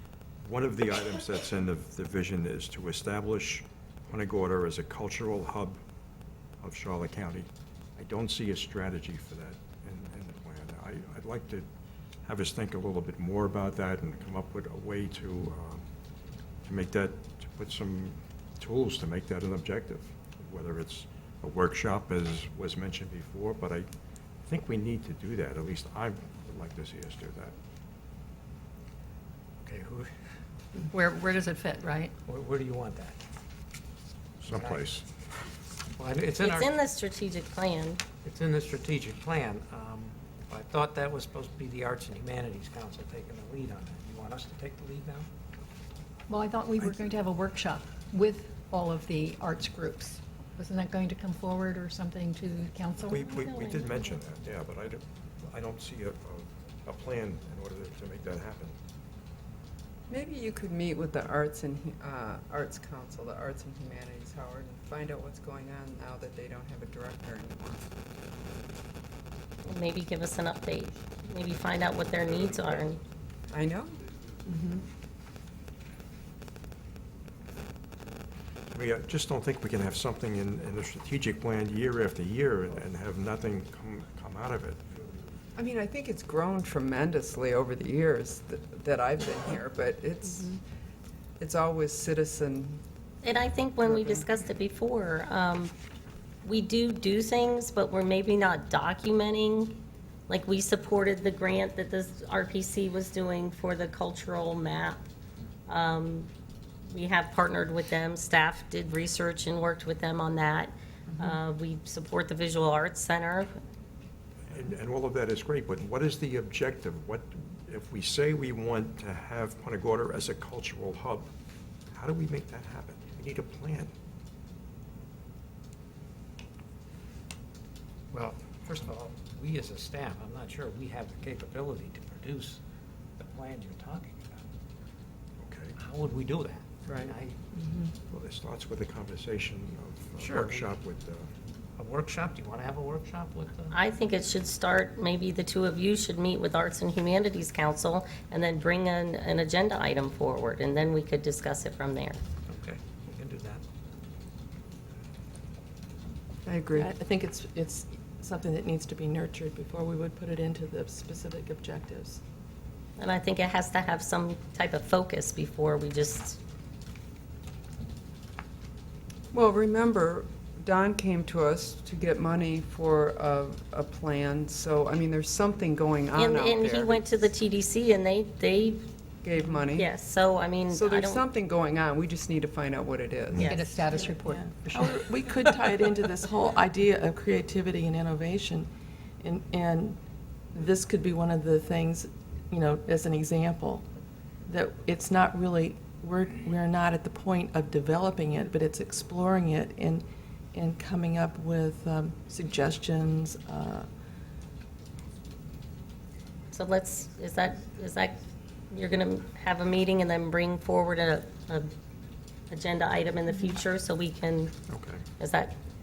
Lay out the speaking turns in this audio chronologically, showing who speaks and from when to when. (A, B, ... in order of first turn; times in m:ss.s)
0:00.4-0:05.8 A
0:06.6-0:11.7 A
0:12.2-0:15.9 A
0:16.6-0:23.9 A
0:24.4-0:27.5 A
0:29.6-0:30.1 B
0:30.9-0:32.1 C
0:32.3-0:33.2 B
0:34.4-0:35.0 A
0:34.5-0:34.9 B
0:36.0-0:36.7 B
0:36.4-0:38.0 D
0:38.2-0:45.3 B
0:46.3-0:53.2 C
0:53.0-0:58.8 A
0:53.1-0:54.2 D
1:00.1-1:07.9 E
1:09.7-1:13.0 D
1:13.5-1:14.0 E
1:14.5-1:14.8 F
1:18.7-1:24.8 A
1:25.6-1:30.6 E
1:31.4-1:32.8 E
1:33.2-1:35.7 D
1:33.8-1:34.2 E
1:36.4-1:45.0 D
1:45.7-1:46.3 D
1:46.9-1:53.5 D
1:54.5-2:01.3 A
2:01.9-2:03.9 A
2:08.1-2:12.6 B
2:13.2-2:14.4 B
2:15.4-2:15.8 A
2:15.8-2:17.4 B
2:16.9-2:17.1 E
2:17.5-2:17.9 F
2:18.1-2:21.3 A
2:20.2-2:20.7 B
2:21.8-2:23.8 B
2:23.7-2:32.2 D
2:32.5-2:33.6 B
2:36.4-2:36.9 E
2:36.7-2:42.2 F
2:43.0-2:46.4 D
2:49.3-2:57.1 E
2:56.1-2:58.9 D
2:59.2-2:59.9 E
2:59.7-3:01.2 D
3:00.7-3:03.6 E
3:03.3-3:03.7 D
3:03.4-3:05.0 C
3:04.2-3:08.7 F
3:09.2-3:10.0 F
3:10.5-3:13.8 F
3:14.4-3:23.9 F
3:26.5-3:28.2 D
3:28.7-3:31.7 D
3:32.5-3:34.5 D
3:34.7-3:35.0 A
3:35.2-3:35.5 D